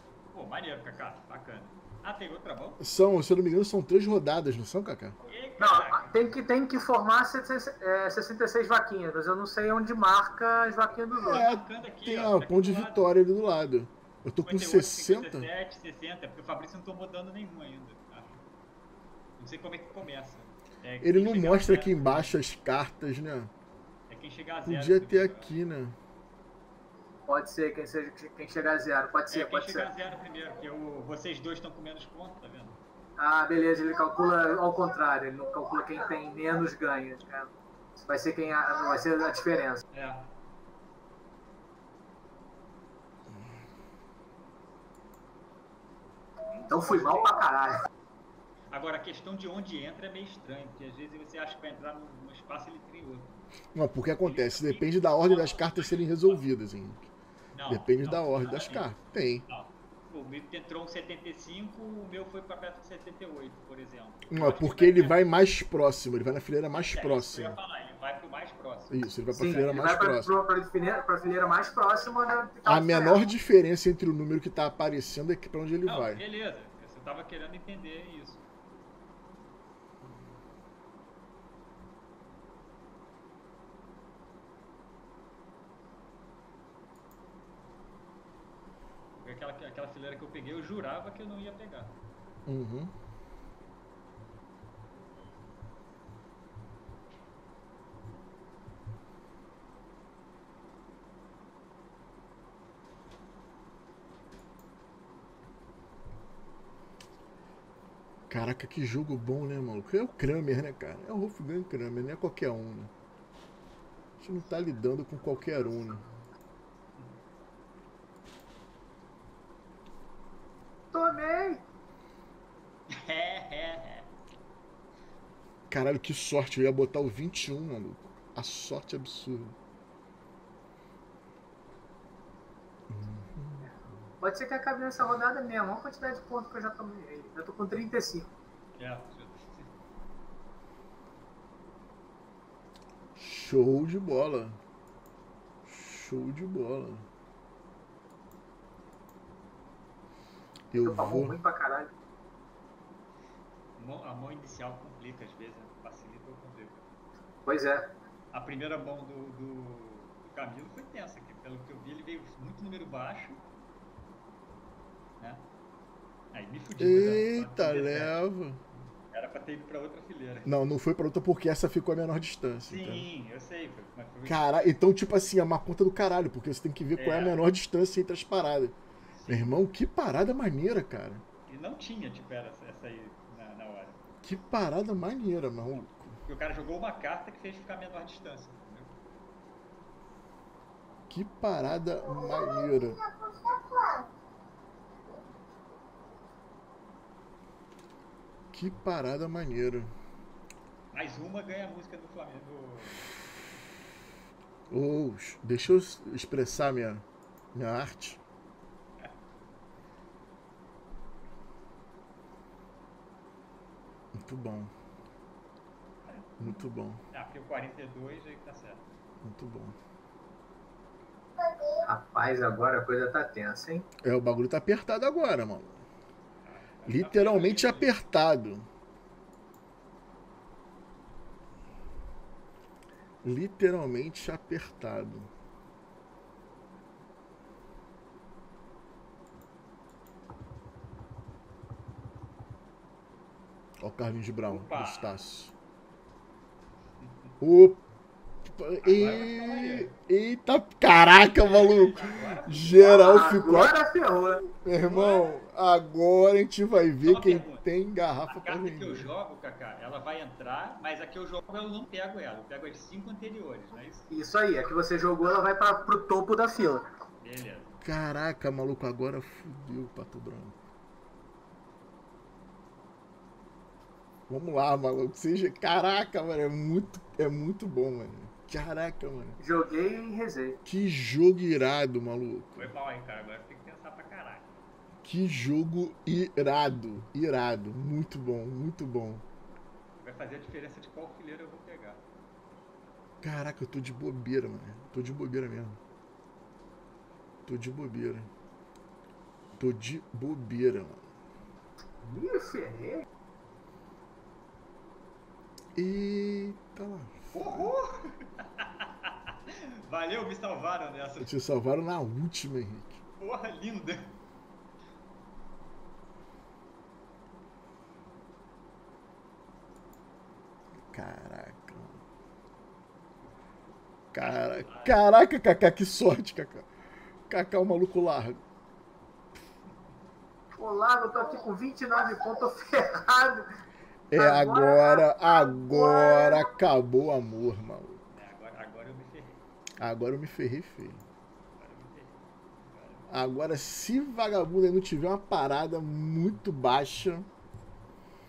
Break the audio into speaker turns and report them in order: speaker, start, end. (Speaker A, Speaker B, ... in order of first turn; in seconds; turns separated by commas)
Speaker A: 0.3-2.8, Speaker B: 2.8-5.2, Speaker A: 5.2-6.2, Speaker C: 5.6-11.4, Speaker A: 11.2-13.1, Speaker B: 11.2-15.5, Speaker A: 14.4-18.3, Speaker A: 19.4-22.4, Speaker B: 21.0-23.5, Speaker A: 24.1-25.6, Speaker B: 24.6-26.0, Speaker C: 27.3-29.9, Speaker A: 29.3-32.8, Speaker C: 33.2-39.8, Speaker A: 39.9-40.3, Speaker A: 46.5-47.4, Speaker C: 46.7-47.8, Speaker A: 48.7-53.3, Speaker B: 53.7-57.1, Speaker A: 54.2-56.4, Speaker A: 57.5-58.9, Speaker B: 57.7-59.5, Speaker A: 59.5-65.2, Speaker B: 64.3-67.6, Speaker A: 66.7-69.8, Speaker B: 68.9-70.3, Speaker C: 69.3-73.3, Speaker B: 72.7-76.2, Speaker A: 75.8-78.4, Speaker A: 89.2-91.9, Speaker B: 92.5-92.9, Speaker B: 108.3-112.9, Speaker B: 114.2-116.0, Speaker C: 120.9-121.6, Speaker A: 122.9-124.1, Speaker B: 125.7-129.5, Speaker B: 132.9-133.7, Speaker C: 133.6-138.3, Speaker A: 138.8-139.7, Speaker B: 143.2-144.6, Speaker B: 145.7-147.0, Speaker B: 150.7-151.4, Speaker C: 150.8-151.9, Speaker A: 153.8-156.9, Speaker C: 157.4-157.9, Speaker A: 158.3-163.4, Speaker A: 165.2-165.4, Speaker A: 166.3-168.2, Speaker B: 166.8-168.6, Speaker A: 169.1-170.5, Speaker B: 170.4-173.1, Speaker A: 172.7-174.7, Speaker B: 174.2-178.7, Speaker A: 177.0-177.4, Speaker A: 179.2-179.6, Speaker B: 179.3-181.2, Speaker A: 181.5-184.0, Speaker B: 184.2-186.2, Speaker A: 186.3-188.9, Speaker B: 191.1-193.0, Speaker B: 198.5-199.9, Speaker A: 200.9-203.1, Speaker B: 204.7-208.2, Speaker B: 214.1-214.7, Speaker A: 216.1-216.5, Speaker B: 216.4-217.0, Speaker A: 217.1-218.8, Speaker B: 219.2-219.8, Speaker C: 221.8-223.9, Speaker B: 224.0-225.8, Speaker A: 226.4-227.9, Speaker B: 226.8-228.7, Speaker B: 233.2-235.3, Speaker B: 243.8-245.5, Speaker A: 244.4-245.2, Speaker B: 247.4-247.8, Speaker B: 248.5-253.8, Speaker A: 248.8-249.9, Speaker A: 251.4-253.3, Speaker C: 252.8-254.4, Speaker B: 254.4-259.1, Speaker A: 254.8-255.3, Speaker A: 257.0-257.7, Speaker A: 258.3-264.1, Speaker C: 264.1-266.8, Speaker A: 267.2-267.7, Speaker B: 267.8-270.5, Speaker B: 274.3-279.4, Speaker C: 279.4-280.6, Speaker B: 280.6-282.7, Speaker A: 282.6-284.6, Speaker B: 285.0-289.2, Speaker A: 290.0-292.0, Speaker B: 293.2-295.8, Speaker B: 297.4-298.3, Speaker B: 299.6-301.1, Speaker C: 302.0-303.0, Speaker B: 305.8-307.7, Speaker A: 307.3-311.3, Speaker B: 311.2-313.0, Speaker A: 313.2-314.1, Speaker B: 320.9-322.0, Speaker B: 324.1-326.7, Speaker A: 324.2-325.0, Speaker B: 327.3-328.4, Speaker C: 330.6-333.5, Speaker B: 334.1-338.0, Speaker C: 334.2-336.5, Speaker A: 338.1-339.4, Speaker B: 339.8-341.0, Speaker A: 341.6-343.1, Speaker B: 343.1-347.3